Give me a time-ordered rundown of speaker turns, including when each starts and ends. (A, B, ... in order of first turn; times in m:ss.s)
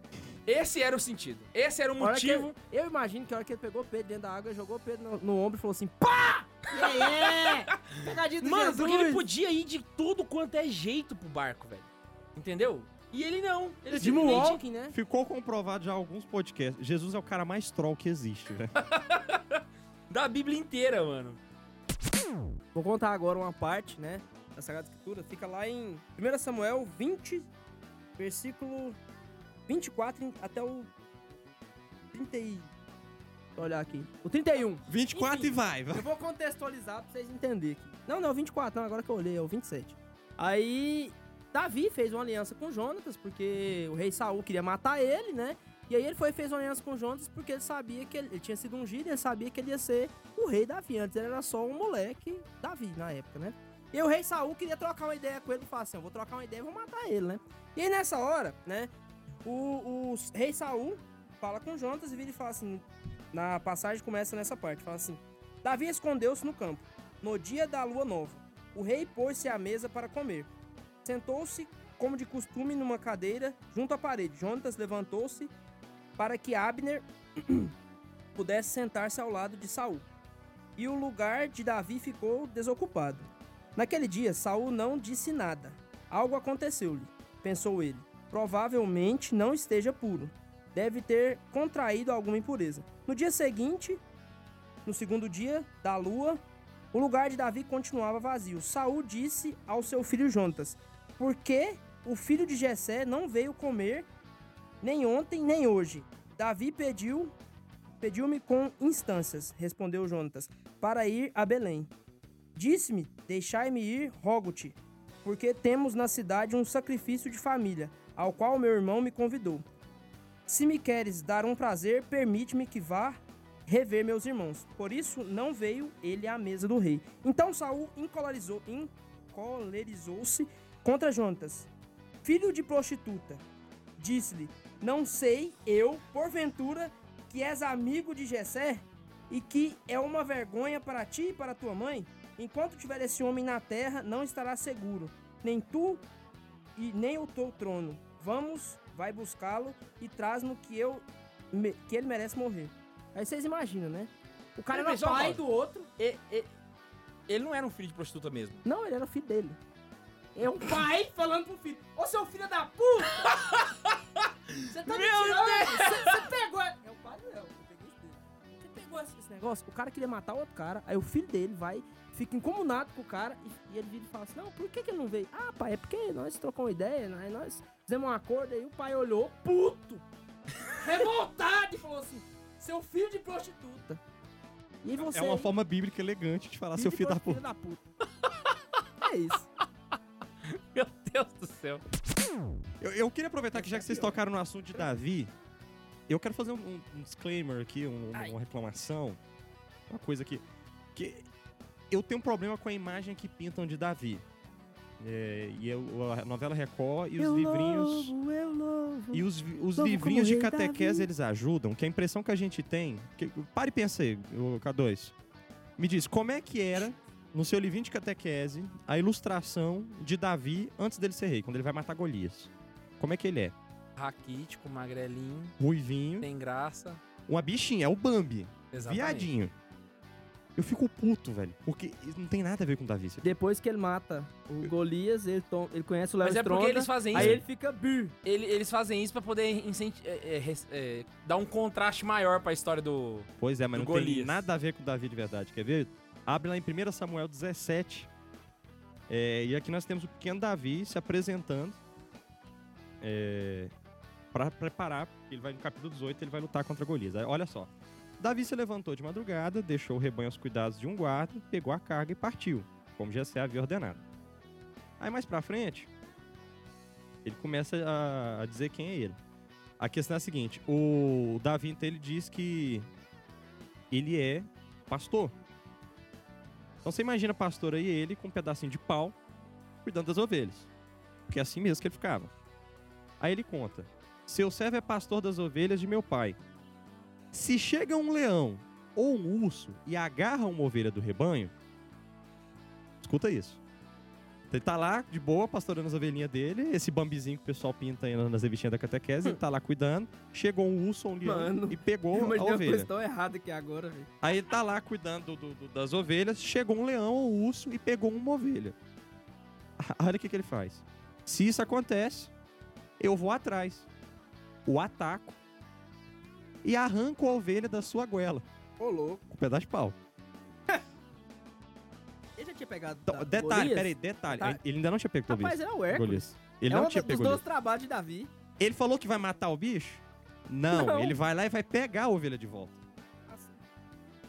0:00.4-0:02.5 A
0:02.0-0:09.2 B
0:06.8-0:14.6 A
0:13.8-0:15.0 B
0:14.2-0:18.7 C
0:18.8-0:21.4 A
0:22.7-0:27.5 B
0:28.2-0:29.0 B
0:29.7-0:30.9 B
0:32.1-0:32.7 B
0:33.6-0:58.9 B
0:34.9-0:36.1 C
0:59.4-1:10.5 B
1:11.0-1:15.5 B
1:16.2-1:17.7 B
1:18.4-1:20.0 B
1:20.8-1:34.0 B
1:34.8-1:36.4 B
1:36.9-1:44.1 B
1:44.8-1:47.3 B
1:48.0-1:51.9 B
1:52.5-1:59.6 B
2:00.4-2:11.7 B
2:12.2-2:13.4 B
2:14.0-2:26.0 B
2:26.8-2:36.5 B
2:34.7-2:35.4 A
2:37.3-2:38.6 A
2:38.6-2:39.6 B
2:40.3-2:43.3 B
2:43.2-2:46.2 A
2:44.7-3:00.0 B
3:00.8-3:04.0 B
3:04.8-3:05.5 B
3:05.0-3:07.4 C
3:06.8-3:07.8 B
3:08.2-3:08.5 A
3:09.0-3:09.4 B
3:10.5-3:11.8 A
3:12.8-3:15.3 C
3:13.5-3:14.1 B
3:16.1-3:19.2 C
3:19.9-3:20.4 C
3:20.9-3:21.2 C
3:21.9-3:24.2 C
3:25.0-3:28.1 C
3:27.2-3:31.1 B
3:29.1-3:35.1 C
3:35.8-3:43.5 C
3:44.0-3:45.6 A
3:45.6-3:46.3 C
3:46.2-3:47.0 A
3:47.3-3:49.5 C
3:48.7-3:49.3 A
3:50.5-3:53.3 C
3:53.2-3:58.2 B
3:56.2-3:57.4 A
3:57.1-3:57.4 C
3:58.2-4:04.4 A
4:03.4-4:08.1 C
4:09.1-4:11.8 C
4:13.0-4:13.7 C
4:14.3-4:24.0 C
4:25.0-4:25.9 C
4:27.2-4:29.2 C
4:29.8-4:32.9 C
4:33.9-4:35.3 C
4:36.8-4:39.1 C
4:39.8-4:40.7 C
4:41.3-4:42.3 C
4:43.2-4:46.4 C
4:47.3-4:51.5 C
4:53.0-4:53.6 C
4:54.5-5:02.9 C
5:01.2-5:04.1 B
5:04.2-5:08.8 C
5:09.8-5:12.3 C
5:13.0-5:13.9 C
5:14.6-5:15.4 C
5:16.6-5:18.4 C
5:18.8-5:19.2 B
5:19.3-5:20.0 C
5:22.4-5:24.6 B
5:23.1-5:27.4 C
5:25.3-5:28.3 B
5:28.6-5:32.8 C
5:30.7-5:31.1 B
5:33.3-5:33.6 B